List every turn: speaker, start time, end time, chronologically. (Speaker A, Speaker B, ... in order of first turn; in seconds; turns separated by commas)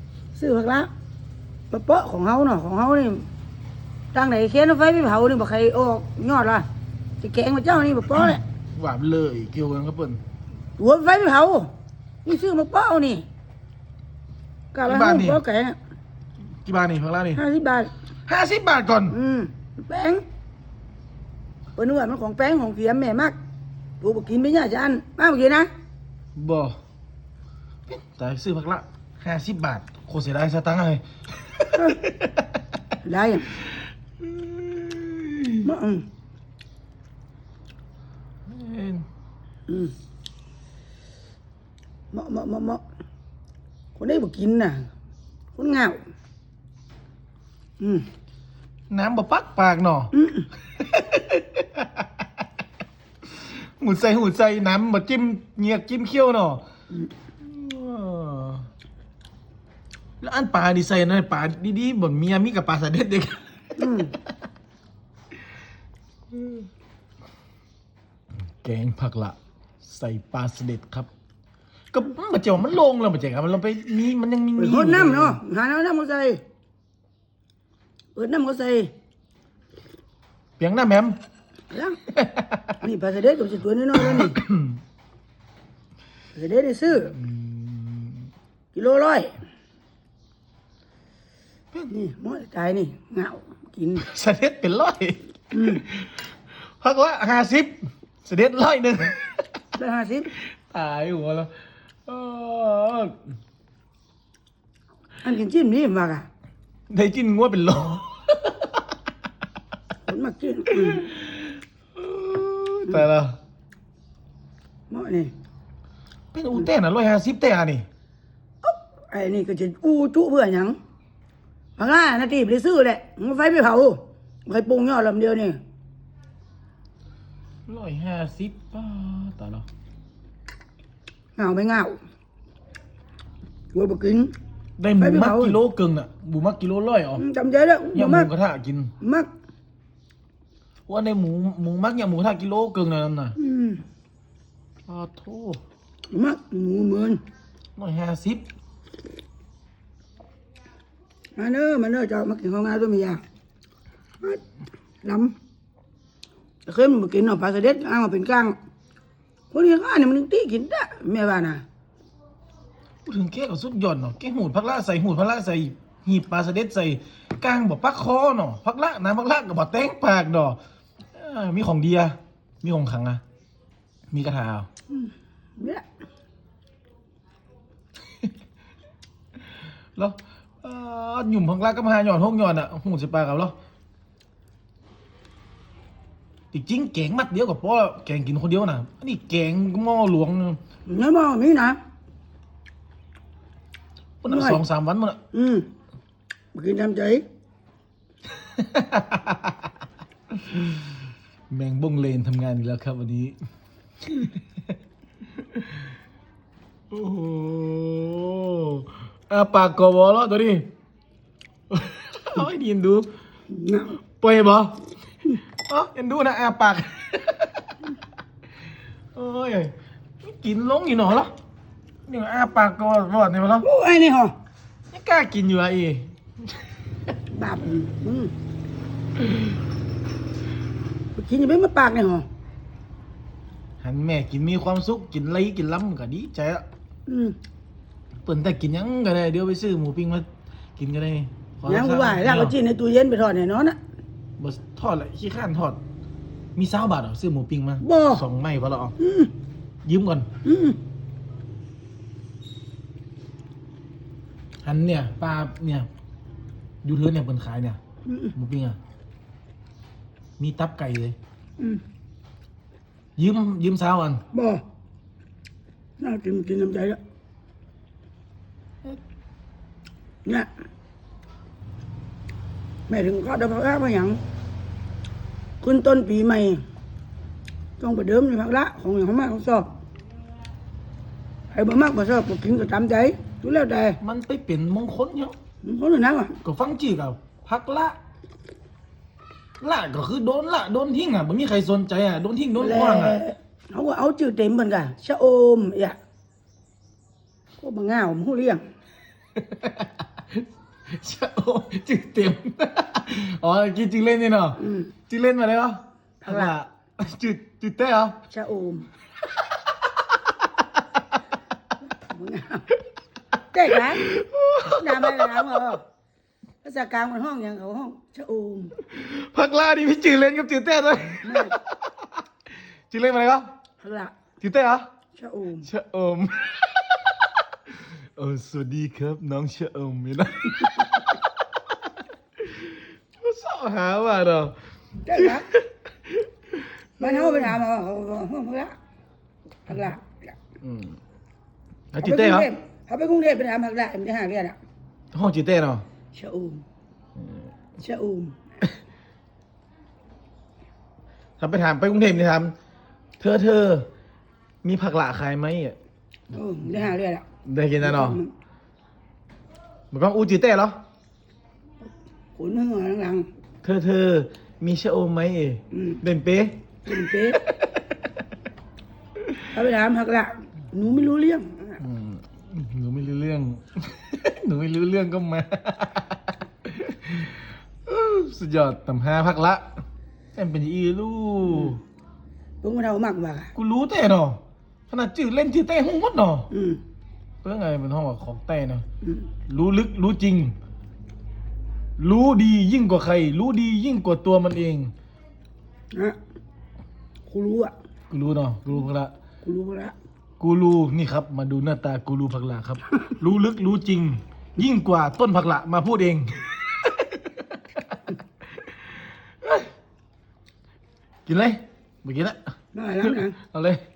Speaker A: 0.4-0.9, Speaker A: 1.7-3.3, Speaker A: 4.1-6.7, Speaker A: 7.2-8.4, Speaker B: 8.2-10.2, Speaker A: 10.8-11.7, Speaker A: 12.2-13.2, Speaker A: 14.7-15.8, Speaker B: 14.9-15.4, Speaker B: 16.6-17.4, Speaker A: 17.4-17.9, Speaker B: 18.3-19.2, Speaker A: 19.1-20.2, Speaker A: 21.8-23.4, Speaker A: 24.0-25.7, Speaker B: 26.4-26.8, Speaker B: 27.9-32.6, Speaker A: 31.7-32.0, Speaker A: 33.0-33.5, Speaker B: 34.2-35.7, Speaker A: 35.6-36.0, Speaker B: 38.5-39.1, Speaker A: 39.7-39.9, Speaker A: 42.1-42.8, Speaker A: 44.0-44.9, Speaker A: 45.5-46.0, Speaker A: 47.8-48.1, Speaker B: 48.9-50.1, Speaker A: 50.1-50.5, Speaker B: 50.7-52.2, Speaker B: 53.2-56.6, Speaker B: 57.4-58.7, Speaker B: 60.2-63.9, Speaker A: 63.8-64.1, Speaker B: 66.3-66.6, Speaker B: 68.6-71.1, Speaker B: 71.9-75.4, Speaker A: 74.6-76.4, Speaker A: 78.2-78.9, Speaker B: 80.6-81.2, Speaker A: 81.7-82.0, Speaker B: 82.1-82.8, Speaker A: 82.8-84.4, Speaker B: 84.1-84.8, Speaker A: 86.3-87.2, Speaker B: 87.1-88.2, Speaker A: 88.7-89.3, Speaker A: 91.9-94.0, Speaker B: 94.0-99.4, Speaker A: 95.5-95.8, Speaker A: 99.8-100.3, Speaker B: 100.4-101.5, Speaker B: 102.1-103.2, Speaker A: 105.2-106.3, Speaker B: 106.9-108.8, Speaker A: 110.1-111.1, Speaker B: 110.8-113.4, Speaker A: 114.9-115.3, Speaker B: 116.3-117.9, Speaker A: 118.6-120.8, Speaker A: 121.8-125.6, Speaker B: 127.7-129.7, Speaker A: 131.4-132.0, Speaker A: 133.7-134.3, Speaker B: 134.8-137.2, Speaker A: 135.0-135.6, Speaker A: 137.2-138.3, Speaker B: 137.9-138.9, Speaker A: 139.0-139.3, Speaker B: 140.9-143.4, Speaker A: 143.4-143.8, Speaker B: 144.9-145.6, Speaker A: 146.1-147.2, Speaker B: 147.8-148.5, Speaker A: 151.4-153.2, Speaker A: 155.0-155.4, Speaker A: 156.7-158.6, Speaker A: 159.5-161.6, Speaker B: 163.1-170.6, Speaker B: 171.2-173.2, Speaker B: 174.1-174.7, Speaker A: 174.9-175.8, Speaker B: 180.0-183.6, Speaker B: 186.5-190.6, Speaker A: 190.9-191.8, Speaker B: 194.2-195.2, Speaker A: 194.3-194.6, Speaker A: 195.3-195.7, Speaker A: 196.5-197.2, Speaker B: 198.5-199.6, Speaker B: 200.4-200.8, Speaker B: 201.5-203.4, Speaker B: 204.1-204.4, Speaker B: 205.6-205.8, Speaker B: 206.9-210.7, Speaker B: 211.7-213.1, Speaker A: 213.5-214.0, Speaker B: 214.2-214.8, Speaker B: 215.7-217.7, Speaker B: 219.2-221.3, Speaker B: 222.1-223.7, Speaker A: 223.6-224.3, Speaker B: 224.9-226.7, Speaker A: 227.3-228.3, Speaker A: 231.2-232.3, Speaker B: 233.8-236.7, Speaker A: 237.1-237.4, Speaker B: 238.2-240.3, Speaker B: 240.8-242.6, Speaker A: 241.7-243.8, Speaker B: 244.4-245.8, Speaker B: 246.6-248.9, Speaker A: 247.8-248.2, Speaker A: 249.0-249.3, Speaker B: 249.8-250.3, Speaker A: 250.4-250.8, Speaker B: 254.6-255.9, Speaker B: 256.8-257.8, Speaker A: 258.1-258.3, Speaker B: 258.4-258.8, Speaker B: 260.4-261.2, Speaker B: 263.2-264.2, Speaker A: 264.3-264.6, Speaker A: 266.0-267.0, Speaker A: 272.9-274.2, Speaker A: 275.6-276.6, Speaker A: 277.8-279.7, Speaker A: 281.5-284.0, Speaker B: 284.0-285.3, Speaker A: 285.6-286.4, Speaker B: 286.4-288.0, Speaker B: 289.6-293.2, Speaker A: 292.6-296.0, Speaker A: 297.6-298.7, Speaker B: 299.4-308.2, Speaker A: 304.6-304.9, Speaker A: 306.3-306.5, Speaker A: 308.3-308.9, Speaker A: 312.0-312.7, Speaker A: 313.5-314.1, Speaker B: 313.9-315.6, Speaker A: 314.6-315.8, Speaker A: 316.6-318.8, Speaker B: 318.8-322.2, Speaker A: 321.2-321.6, Speaker B: 322.9-323.5, Speaker A: 323.8-324.2, Speaker B: 324.4-324.9, Speaker A: 325.2-325.7, Speaker B: 325.6-331.3, Speaker B: 332.4-334.6, Speaker A: 335.0-335.5, Speaker B: 335.1-337.6, Speaker A: 337.0-338.8, Speaker A: 339.7-340.3, Speaker B: 340.6-341.0, Speaker B: 341.9-342.5, Speaker A: 342.0-344.6, Speaker B: 345.1-345.8, Speaker A: 346.1-346.6, Speaker B: 347.2-347.5, Speaker A: 347.8-348.4, Speaker B: 351.4-352.6, Speaker B: 353.2-353.9, Speaker B: 354.6-355.8, Speaker A: 356.3-357.3, Speaker B: 357.4-358.2, Speaker A: 357.8-358.3, Speaker B: 359.9-360.8, Speaker A: 362.4-363.3, Speaker B: 363.6-367.8, Speaker A: 365.7-366.0, Speaker A: 366.9-367.4, Speaker A: 369.4-371.8, Speaker B: 371.8-379.7, Speaker B: 380.4-381.8, Speaker A: 382.6-383.5, Speaker B: 383.6-386.5, Speaker A: 386.5-386.8, Speaker B: 387.4-388.8, Speaker A: 389.0-389.3, Speaker B: 389.5-390.6, Speaker B: 392.0-394.9, Speaker A: 397.3-397.7, Speaker B: 398.1-399.1, Speaker A: 399.4-399.9, Speaker B: 400.4-408.0, Speaker B: 409.4-409.7, Speaker B: 411.3-412.4, Speaker A: 412.7-413.4, Speaker B: 413.0-413.8